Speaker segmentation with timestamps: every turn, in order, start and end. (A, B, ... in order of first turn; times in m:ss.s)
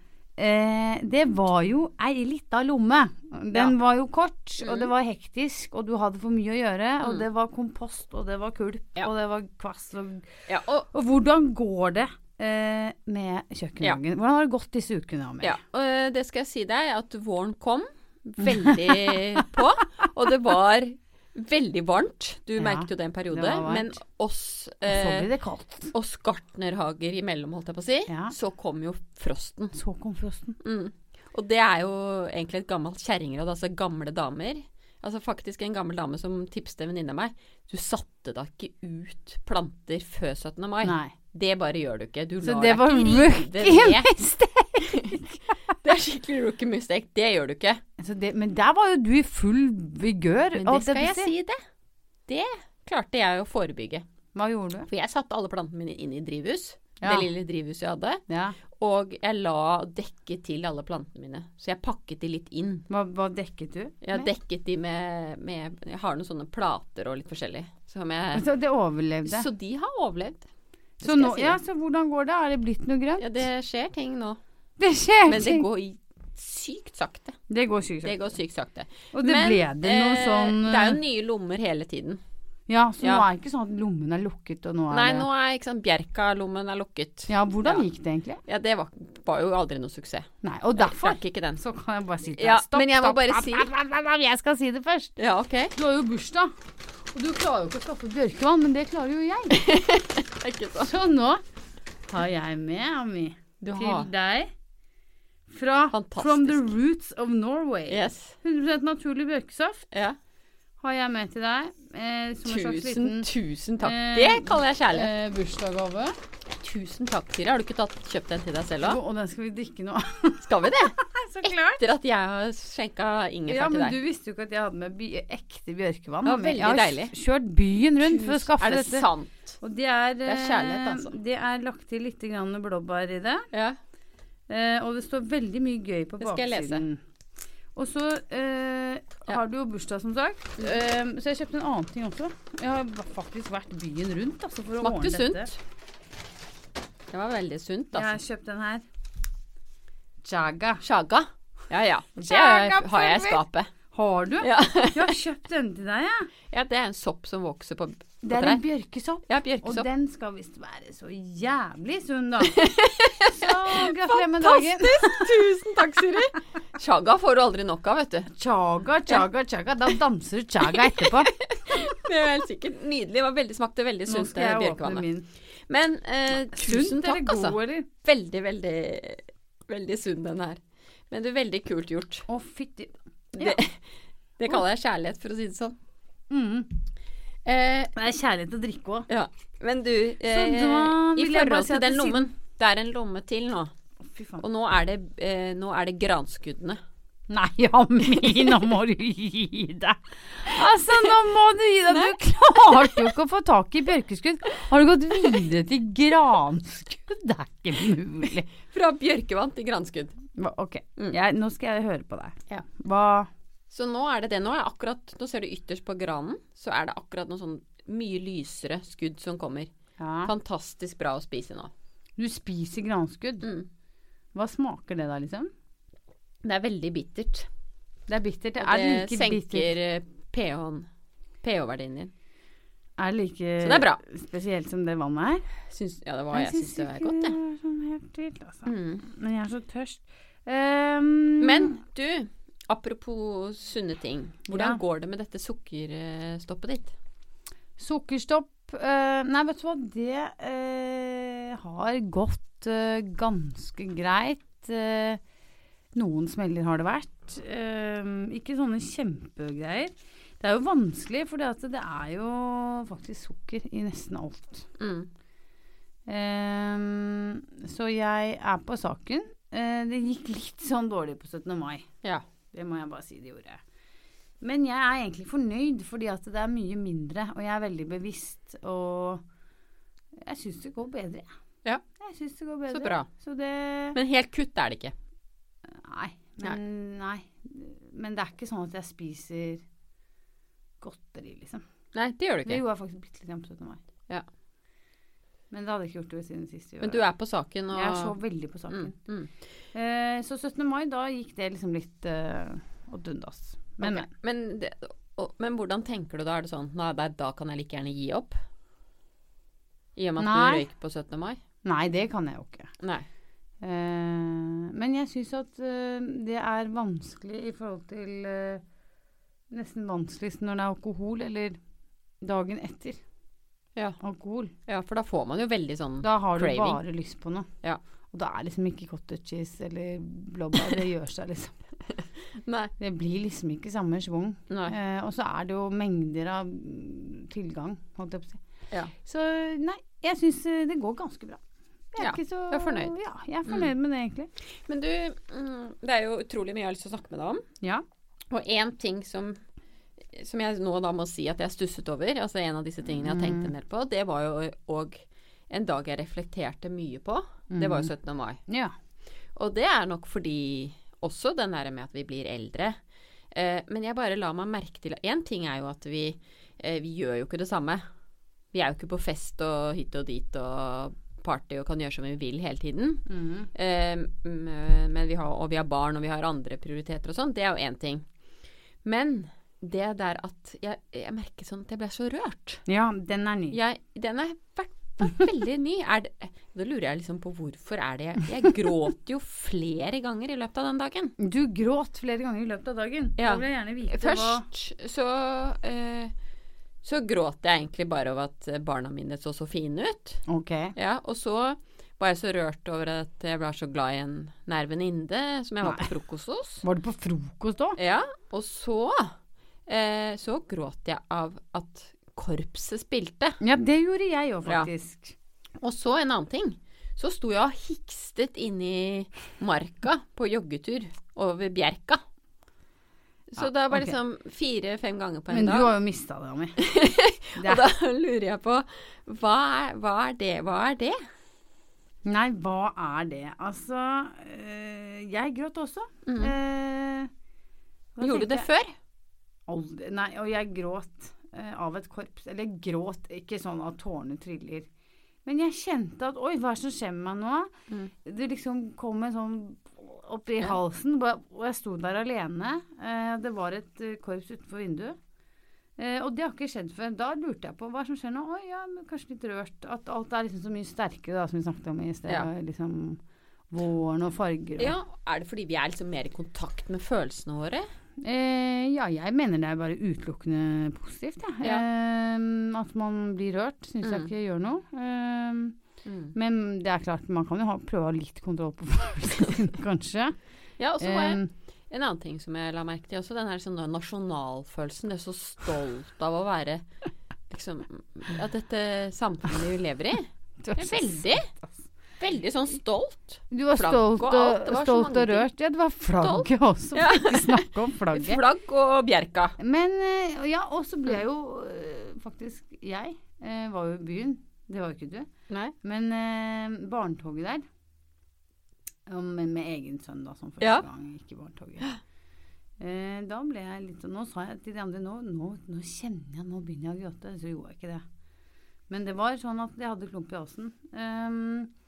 0:00.4-0:15.6 A
0:04.6-0:04.9 B
0:10.5-0:10.9 B
0:15.4-0:25.3 B
0:18.4-0:19.2 A
0:22.6-0:24.0 A
0:24.8-0:25.9 A
0:25.9-0:29.8 B
0:28.1-0:28.3 A
0:29.7-0:30.6 A
0:30.6-0:44.1 B
0:40.8-0:41.1 A
0:42.4-0:45.5 A
0:44.8-0:47.8 B
0:48.0-0:51.3 A
0:50.6-0:51.6 B
0:52.3-0:54.0 B
0:54.4-0:54.9 A
0:54.9-0:58.2 B
0:57.0-0:57.3 A
0:58.3-0:58.6 A
0:58.7-1:02.9 B
1:02.9-1:04.3 A
1:04.0-1:08.5 B
1:08.3-1:09.5 A
1:09.2-1:10.5 B
1:11.0-1:11.6 B
1:11.0-1:13.4 A
1:13.2-1:14.4 B
1:14.8-1:15.7 A
1:15.3-1:17.4 B
1:17.5-1:18.3 A
1:18.0-1:22.2 B
1:19.1-1:21.0 A
1:22.7-1:25.3 A
1:24.9-1:27.9 B
1:27.3-1:28.4 A
1:28.4-1:31.6 B
1:30.4-1:35.1 A
1:32.4-1:33.7 B
1:35.2-1:35.7 B
1:35.7-1:36.5 A
1:37.1-1:39.6 A
1:39.5-1:40.9 B
1:40.8-1:41.4 A
1:42.1-1:44.5 A
1:43.6-1:44.1 B
1:45.5-1:49.9 A
1:45.9-1:46.7 B
1:47.9-1:48.4 B
1:49.9-1:50.2 B
1:50.8-1:53.3 A
1:52.4-1:55.1 B
1:53.8-1:56.2 A
1:56.5-1:59.0 B
1:58.8-2:01.8 A
2:00.4-2:00.9 B
2:01.7-2:04.0 B
2:03.5-2:09.1 A
2:06.2-2:07.1 B
2:08.0-2:09.6 B
2:09.6-2:13.5 A
2:10.2-2:11.2 B
2:13.5-2:13.8 B
2:14.5-2:17.0 A
2:16.2-2:16.8 B
2:17.8-2:25.5 A
2:24.8-2:25.6 B
2:27.1-2:28.2 B
2:27.9-2:28.8 A
2:30.2-2:30.8 A
2:30.8-2:33.7 B
2:32.2-2:36.3 A
2:34.4-2:35.2 B
2:36.5-2:38.6 B
2:38.2-2:42.7 A
2:39.3-2:39.9 B
2:42.4-2:48.3 B
2:43.2-2:45.4 A
2:48.3-2:51.4 A
2:50.7-2:55.0 B
2:54.1-2:55.3 A
2:55.7-3:02.3 B
2:56.4-2:57.9 A
3:02.3-3:03.6 A
3:03.4-3:03.8 B
3:04.4-3:05.8 B
3:06.3-3:06.7 A
3:07.4-3:07.9 B
3:08.0-3:09.1 A
3:09.1-3:13.7 B
3:10.2-3:12.3 A
3:14.0-3:14.4 A
3:14.4-3:16.8 B
3:17.3-3:28.5 A
3:18.1-3:18.6 B
3:21.9-3:23.1 B
3:28.6-3:30.2 B
3:30.4-3:33.3 A
3:33.7-3:39.7 B
3:40.0-3:40.3 A
3:40.2-3:41.7 B
3:42.2-3:43.5 A
3:43.4-3:43.7 B
3:44.4-3:45.5 A
3:46.4-3:47.5 B
3:48.1-3:49.7 A
3:48.6-3:50.9 B
3:51.4-3:52.1 B
3:53.0-3:55.5 A
3:53.6-3:54.0 B
3:55.7-3:57.4 B
3:56.3-4:01.8 A
3:58.6-3:59.0 B
4:01.4-4:06.9 B
4:04.5-4:04.8 A
4:07.8-4:15.2 A
4:16.0-4:24.7 A
4:24.8-4:25.1 B
4:26.1-4:31.9 A
4:32.5-4:33.6 A
4:34.4-4:39.2 A
4:40.2-4:41.3 A
4:42.0-4:44.0 A
4:42.7-4:43.1 B
4:44.0-4:44.9 B
4:45.8-4:49.6 A
4:50.8-4:51.6 A
4:51.9-4:52.6 B
4:52.5-4:53.8 A
4:55.5-4:57.1 A
4:56.8-4:58.2 B
4:57.7-4:59.0 A
4:58.7-4:59.3 B
4:59.7-5:04.1 A
5:03.8-5:08.4 B
5:10.0-5:11.4 B
5:10.2-5:10.7 A
5:11.6-5:12.7 A
5:12.8-5:13.1 B
5:13.6-5:18.6 A
5:19.5-5:21.6 A
5:22.2-5:23.0 A
5:24.0-5:24.5 A
5:24.7-5:26.8 B
5:26.0-5:27.5 A
5:28.1-5:31.6 A
5:32.3-5:32.7 B
5:32.8-5:38.4 A
5:34.5-5:34.8 B
5:39.0-5:41.4 A
5:41.9-5:44.3 A
5:42.0-5:42.9 B
5:44.7-5:47.4 B
5:48.3-5:49.4 B
5:50.0-5:58.4 B
5:53.0-5:53.5 A
5:57.5-5:57.9 A
5:58.5-5:58.7 A
5:59.4-6:02.8 B
6:03.3-6:07.8 B
6:08.5-6:18.0 B
6:13.1-6:13.5 A
6:18.8-6:22.6 B
6:22.7-6:23.6 A
6:23.5-6:31.2 B
6:31.2-6:34.4 A
6:33.2-6:36.1 B
6:36.8-6:40.2 B
6:40.3-6:40.7 A
6:40.8-6:46.6 B
6:45.6-6:45.9 A
6:46.6-6:47.8 A
6:47.8-6:49.1 B
6:49.7-6:53.4 B
6:53.4-6:55.2 A
6:55.6-7:02.0 B
7:03.3-7:05.7 B
7:03.4-7:04.0 A
7:05.3-7:06.6 A
7:06.6-7:11.0 B
7:07.4-7:07.7 A
7:12.0-7:17.1 A
7:16.1-7:16.3 B
7:18.0-7:18.5 A
7:18.0-7:18.7 B
7:19.5-7:24.7 A
7:25.2-7:27.5 A
7:28.0-7:35.0 A
7:35.8-7:44.8 A
7:44.6-7:47.6 B
7:48.0-7:55.6 A
7:53.8-7:54.1 B
7:55.8-7:56.1 B
7:56.1-8:00.2 A
8:00.6-8:06.6 B
8:00.8-8:01.3 A
8:07.3-8:11.3 B
8:10.4-8:11.5 A
8:12.0-8:15.3 B
8:13.3-8:18.2 A
8:16.0-8:19.4 B
8:19.4-8:25.1 A
8:25.3-8:25.5 B
8:25.6-8:27.4 A
8:28.9-8:31.7 A
8:30.4-8:30.6 B
8:32.6-8:37.8 A
8:38.7-8:41.5 A